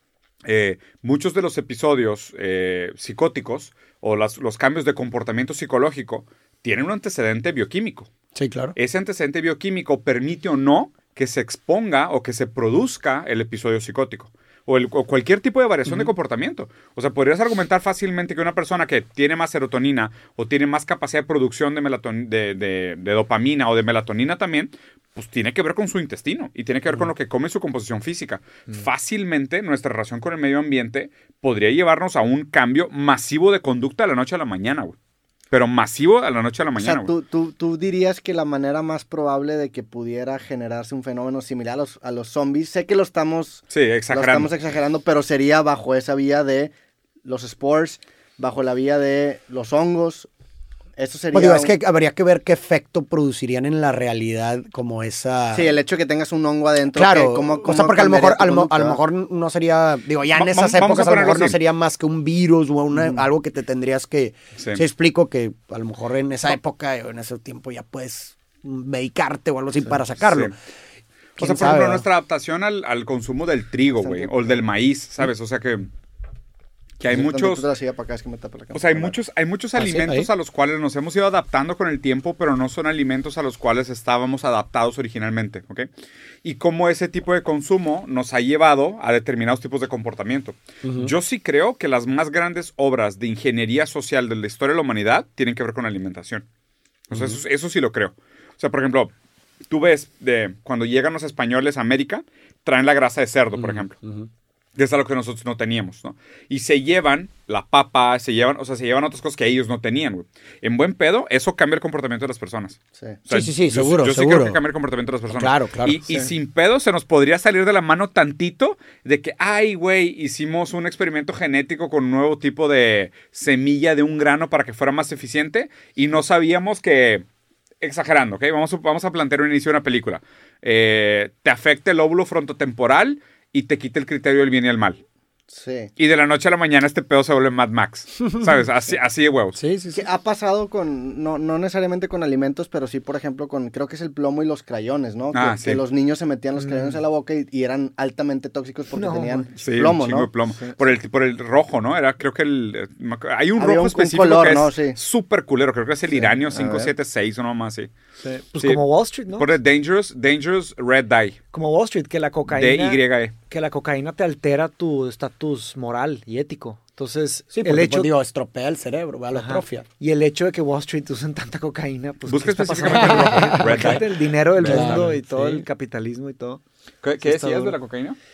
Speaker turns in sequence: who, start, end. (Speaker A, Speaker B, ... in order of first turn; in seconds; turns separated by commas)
Speaker A: 0.5-8.1, Speaker B: 8.3-8.8, Speaker A: 8.8-35.0, Speaker A: 35.5-37.1, Speaker C: 36.8-46.7, Speaker A: 43.7-44.5, Speaker C: 47.2-50.3, Speaker C: 51.0-51.8, Speaker B: 51.3-55.8, Speaker C: 55.5-59.0, Speaker B: 56.9-70.5, Speaker A: 60.3-61.6, Speaker C: 63.0-63.2, Speaker A: 64.5-64.8, Speaker A: 70.2-70.5, Speaker B: 71.4-72.0, Speaker A: 71.4-75.9, Speaker C: 74.0-74.6, Speaker A: 77.0-77.7, Speaker C: 77.1-79.2, Speaker A: 78.7-85.9, Speaker B: 79.8-80.3, Speaker A: 86.4-96.5, Speaker B: 90.8-91.1, Speaker A: 97.1-99.1, Speaker A: 99.7-104.0, Speaker B: 103.6-104.3, Speaker A: 104.8-127.2, Speaker C: 113.0-113.3, Speaker B: 113.3-114.6, Speaker B: 115.3-116.0, Speaker A: 127.8-135.0, Speaker C: 135.5-135.9, Speaker A: 136.0-139.6, Speaker B: 139.6-140.1, Speaker C: 139.9-150.8, Speaker A: 145.3-145.8, Speaker D: 148.9-149.5, Speaker A: 149.6-157.9, Speaker C: 153.6-155.0, Speaker C: 156.1-156.9, Speaker D: 158.4-159.6, Speaker A: 158.6-161.4, Speaker D: 161.5-168.1, Speaker A: 162.5-163.3, Speaker B: 167.5-169.8, Speaker D: 169.3-176.6, Speaker A: 172.3-175.1, Speaker B: 172.9-173.8, Speaker B: 174.6-175.6, Speaker A: 177.0-178.2, Speaker D: 177.2-177.8